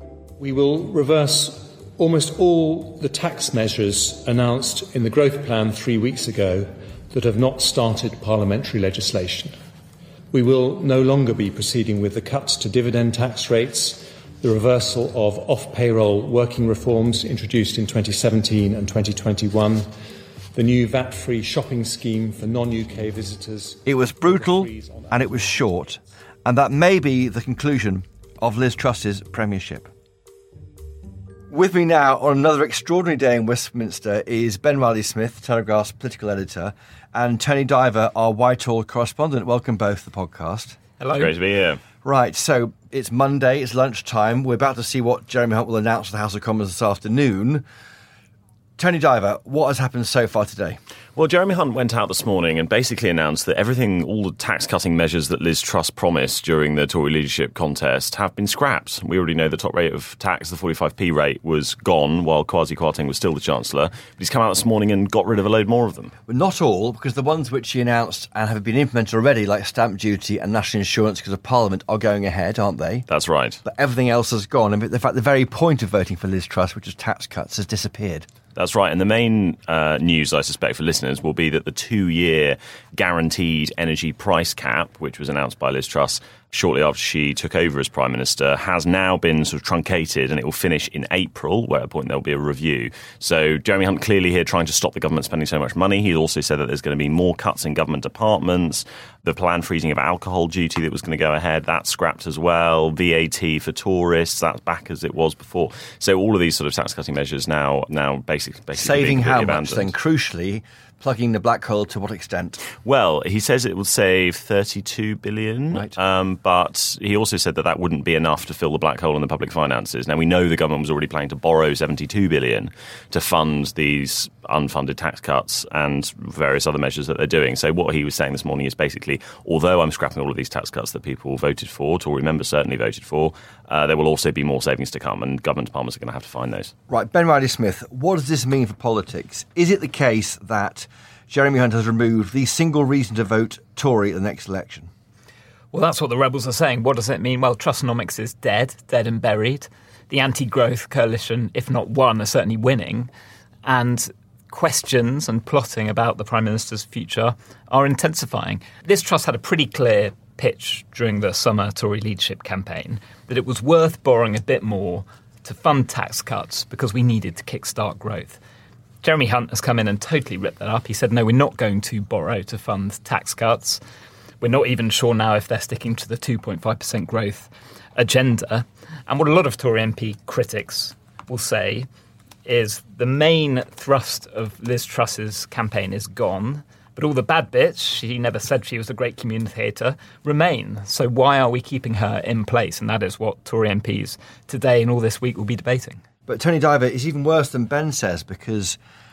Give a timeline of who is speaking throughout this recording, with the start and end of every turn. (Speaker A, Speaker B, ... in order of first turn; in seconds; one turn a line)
Speaker A: 0.4-9.6
Speaker A: 10.3-19.9
Speaker A: 20.5-25.5
Speaker B: 23.8-29.9
Speaker B: 31.5-40.8
Speaker C: 41.0-41.3
Speaker D: 41.2-41.8
Speaker B: 42.0-47.6
Speaker B: 48.8-50.8
Speaker D: 51.1-66.1
Speaker B: 66.3-73.1
Speaker D: 73.1-73.6
Speaker B: 73.6-78.3
Speaker D: 78.5-109.9
Speaker B: 108.8-112.6
Speaker D: 112.8-136.7
Speaker B: 136.9-144.9
Speaker C: 145.7-153.1
Speaker C: 153.6-168.4
Speaker C: 169.0-173.8
Speaker C: 174.4-181.9
Speaker C: 182.4-196.0
Speaker B: 196.3-198.8